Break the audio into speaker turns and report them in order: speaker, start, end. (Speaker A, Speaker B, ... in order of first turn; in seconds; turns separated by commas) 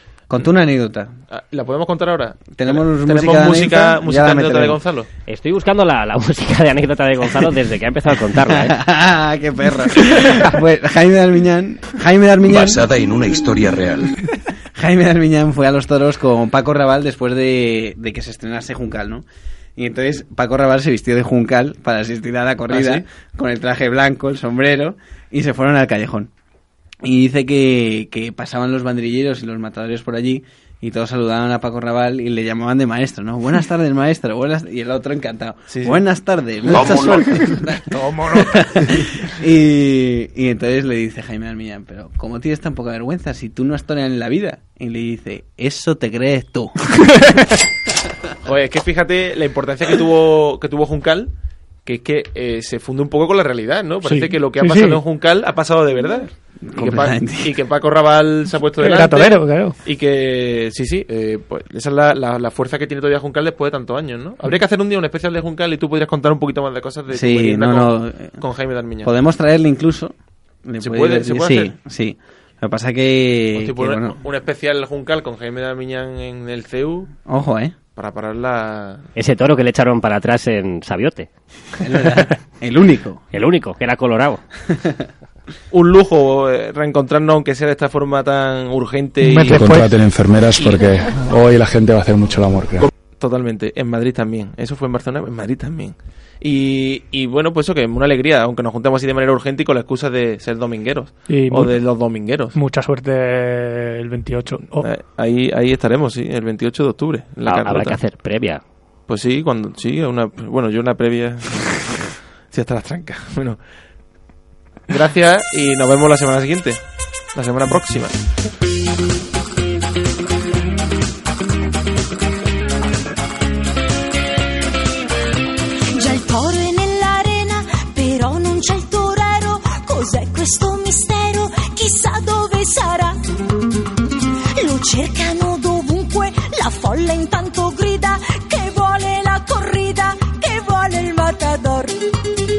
Speaker A: 0.3-1.1, Speaker B: 1.3-5.1, Speaker A: 2.5-4.8, Speaker C: 5.3-8.8, Speaker A: 8.5-12.8, Speaker D: 12.5-14.2, Speaker A: 14.7-19.2, Speaker A: 19.8-26.3, Speaker B: 22.7-23.0, Speaker A: 27.0-47.0, Speaker B: 35.7-36.0, Speaker B: 36.7-37.7, Speaker D: 36.8-37.4, Speaker E: 37.9-38.6, Speaker B: 48.4-51.3, Speaker B: 51.8-69.1, Speaker E: 54.0-55.0, Speaker A: 56.7-57.6, Speaker E: 58.8-59.8, Speaker A: 67.1-68.4, Speaker A: 69.0-70.1, Speaker A: 70.6-74.2, Speaker B: 70.8-71.7, Speaker B: 73.5-77.1, Speaker A: 77.2-77.7, Speaker B: 78.0-79.0, Speaker C: 79.2-81.3, Speaker A: 81.8-83.2, Speaker C: 83.3-84.4, Speaker B: 85.7-89.6, Speaker E: 89.2-89.9, Speaker F: 89.5-92.9, Speaker B: 93.1-102.5, Speaker E: 101.3-101.8, Speaker E: 102.5-104.9, Speaker B: 104.8-108.0, Speaker C: 107.4-108.6, Speaker B: 109.1-112.0, Speaker B: 112.5-113.6, Speaker B: 114.9-116.8, Speaker B: 117.3-118.1, Speaker G: 125.9-133.2, Speaker G: 134.5-141.9